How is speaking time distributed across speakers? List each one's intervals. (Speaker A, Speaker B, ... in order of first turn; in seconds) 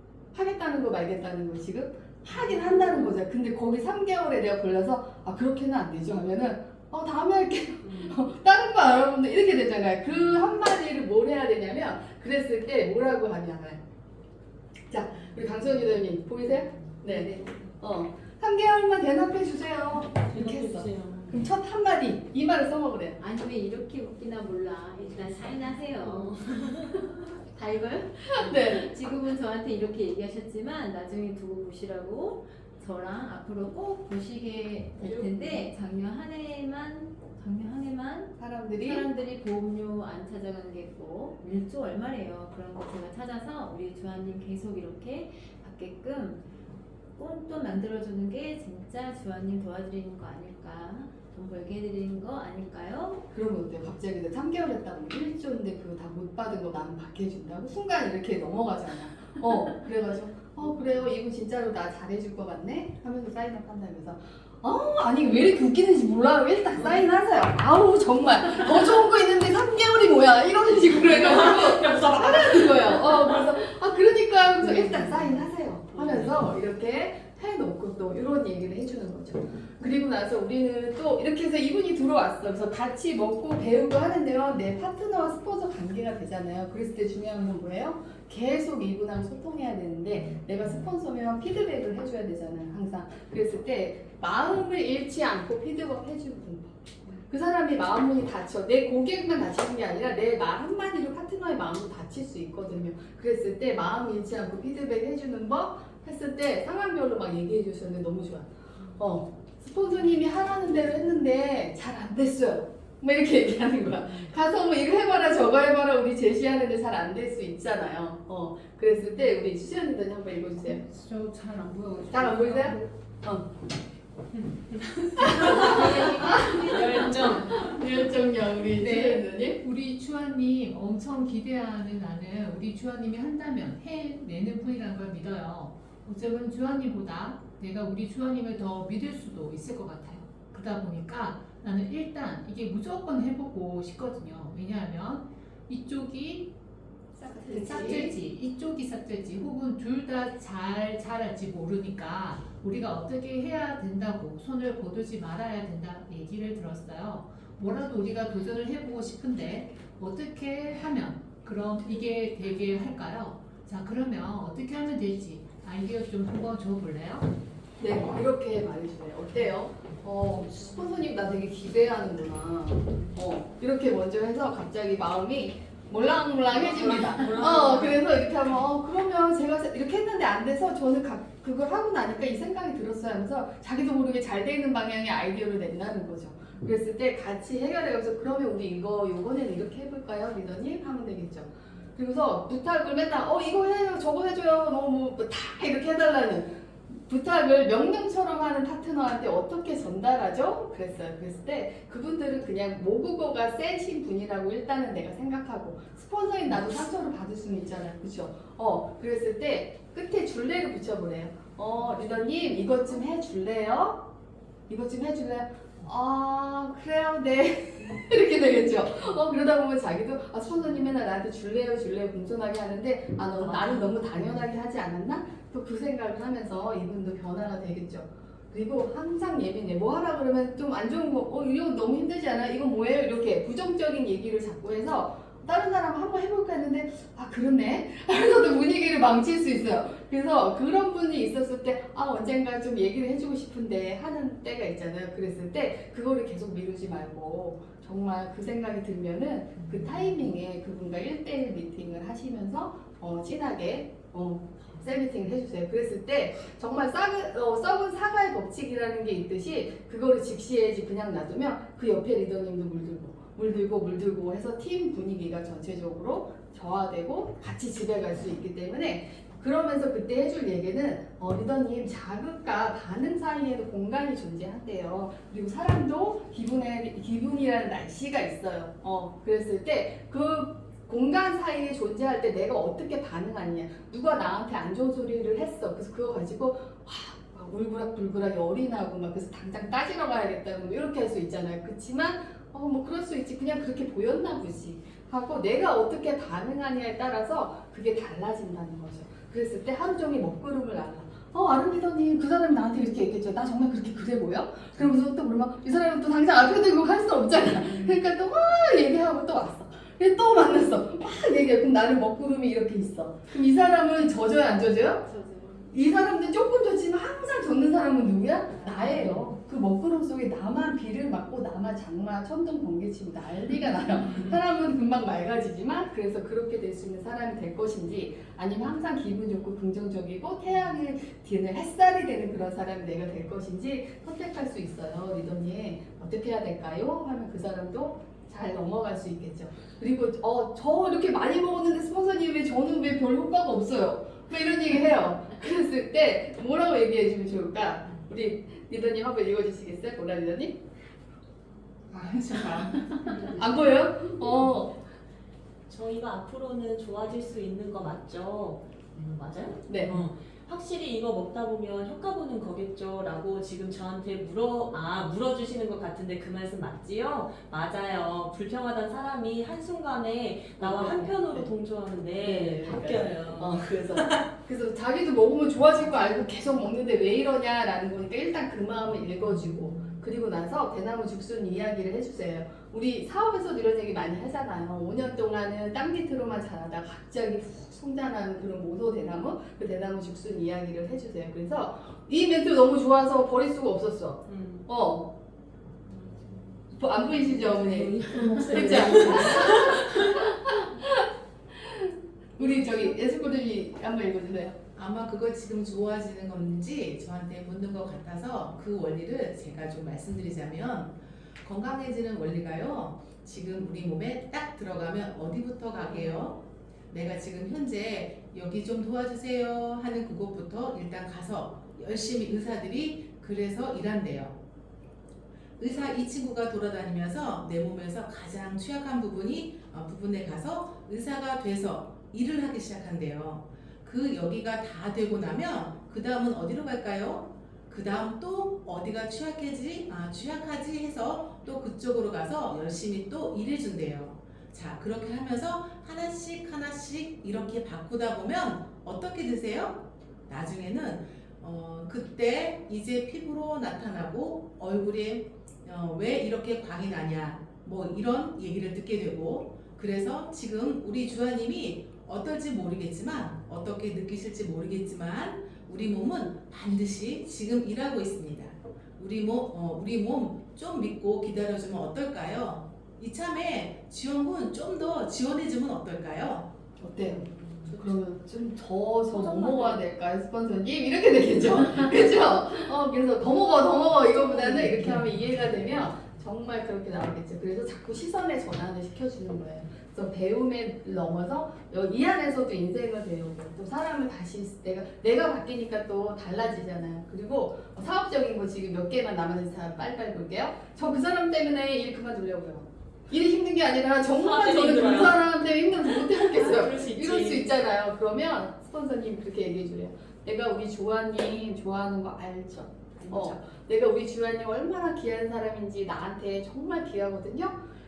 Speaker A: 0.3-13.8, 14.9-23.2, 28.4-28.9, 35.0-35.6, 38.4-39.0, 53.3-120.8, 122.1-123.5, 125.2-129.6, 147.2-148.2, 167.8-214.0, 214.7-315.0, 315.7-350.6, 353.3-354.7, 359.7-360.0, 370.6-371.5, 372.2-395.1, 396.7-404.6, 476.8-517.6
Speaker B: 2.6-3.0, 7.9-8.1, 20.3-21.5, 26.0-27.0, 71.5-72.1, 126.6-127.6, 176.5-178.0, 223.4-224.0, 307.7-308.0, 355.7-374.2, 394.3-394.6, 397.3-400.0, 479.1-479.9, 504.2-505.2, 505.9-507.5, 513.0-513.4
Speaker C: 17.0-17.6, 23.2-46.4, 47.2-53.2, 315.0-315.7
Speaker D: 120.7-122.9, 124.3-127.8, 128.7-146.5, 147.4-167.3, 351.9-353.3
Speaker E: 404.7-424.4, 425.6-476.5